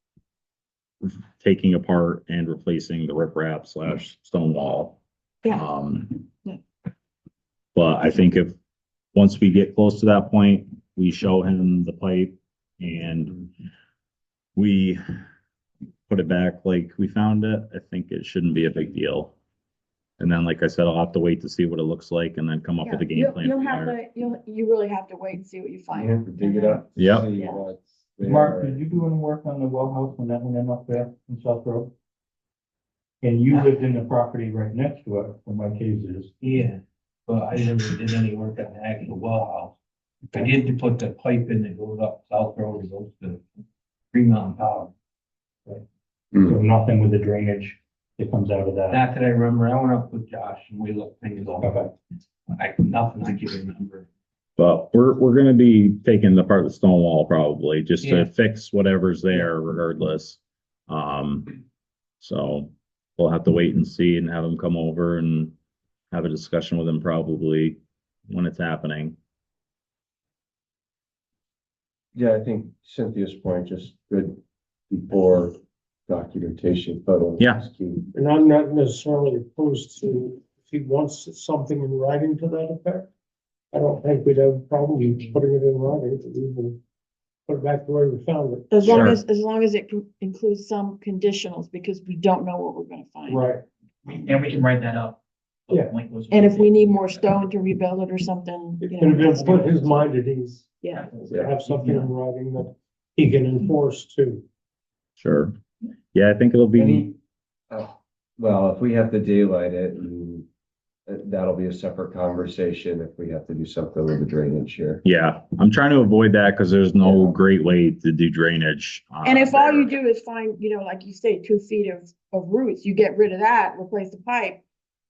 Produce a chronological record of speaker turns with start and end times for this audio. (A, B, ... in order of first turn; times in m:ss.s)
0:01.0-0:05.0 A
0:05.5-0:06.2 A
0:07.8-0:08.6 A
0:09.1-0:13.4 A
0:14.6-0:15.0 A
0:16.1-0:19.4 A
0:20.2-0:24.0 A
0:22.8-0:27.6 B
0:25.9-0:28.8 C
0:27.0-0:27.3 A
0:28.2-0:31.9 D
0:33.2-0:36.3 D
0:36.4-0:39.8 E
0:40.3-0:43.4 E
0:44.1-0:44.9 E
0:46.4-0:49.0 D
0:48.9-0:51.9 E
0:51.6-0:51.9 D
0:52.5-0:54.1 E
0:54.6-1:01.5 A
0:58.0-0:58.3 E
1:02.2-1:05.5 A
1:06.1-1:07.8 A
1:08.3-1:09.2 A
1:12.2-1:14.4 C
1:14.9-1:18.1 C
1:17.4-1:17.6 A
1:18.1-1:23.1 F
1:23.7-1:26.8 F
1:27.5-1:29.1 F
1:28.7-1:33.4 B
1:28.8-1:29.2 A
1:33.3-1:33.6 F
1:34.1-1:37.5 G
1:36.3-1:39.7 B
1:38.8-1:44.4 F
1:39.4-1:40.1 G
1:40.8-1:41.1 B
1:40.9-1:42.1 G
1:41.3-1:41.6 C
1:45.2-1:45.6 A
1:46.1-1:47.1 A
1:46.8-1:47.2 C
1:47.7-1:50.5 C
1:51.1-1:55.0 C
1:55.0-1:59.9 A
1:57.0-1:57.4 C
1:59.2-2:04.6 B